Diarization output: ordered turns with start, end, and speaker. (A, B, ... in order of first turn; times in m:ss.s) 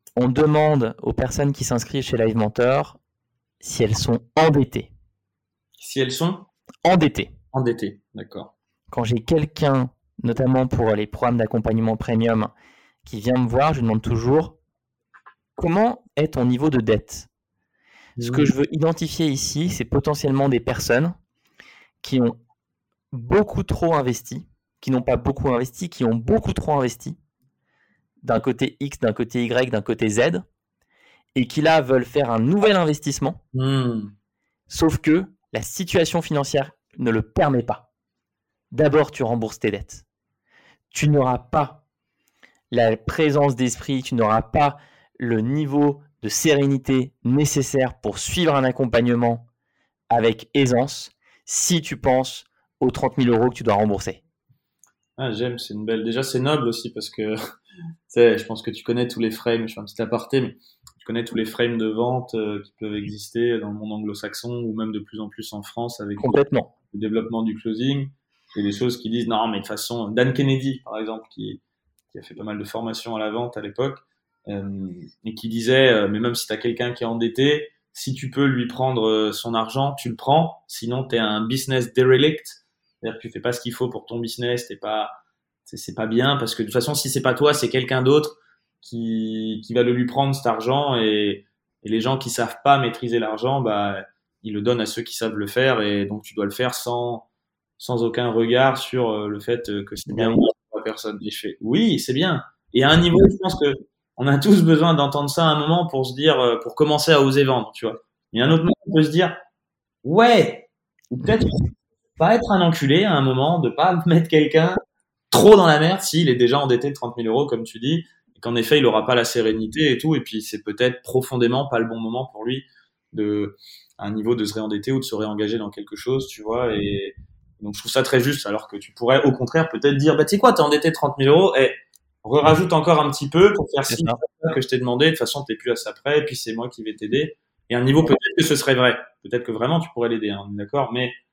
0:00.2-0:03.0 A
0:03.6-0:04.9 A
0:05.8-0:06.5 B
0:06.8-0:07.3 A
0:07.5-0:08.5 B
0:08.9-0:12.5 A
0:13.0-0:14.6 A
0:15.6-0:17.3 A
0:18.2-0:18.5 B
0:18.2-0:21.2 A
0:22.0-0:22.4 A
0:23.1-0:27.2 A
0:28.2-0:30.4 A
0:31.4-0:33.4 A
0:33.5-0:34.1 B
0:34.7-0:37.9 A
0:38.7-0:40.0 A
0:40.9-0:41.8 A
0:42.7-0:49.4 A
0:50.1-0:54.2 A
0:55.2-0:57.4 B
0:58.1-1:06.4 B
1:06.2-1:06.7 A
1:06.9-1:37.3 B
1:37.8-1:49.4 B
1:40.1-1:40.4 A
1:50.0-1:51.6 B
1:52.2-1:54.8 B
1:55.3-2:21.2 B
2:13.9-2:14.2 A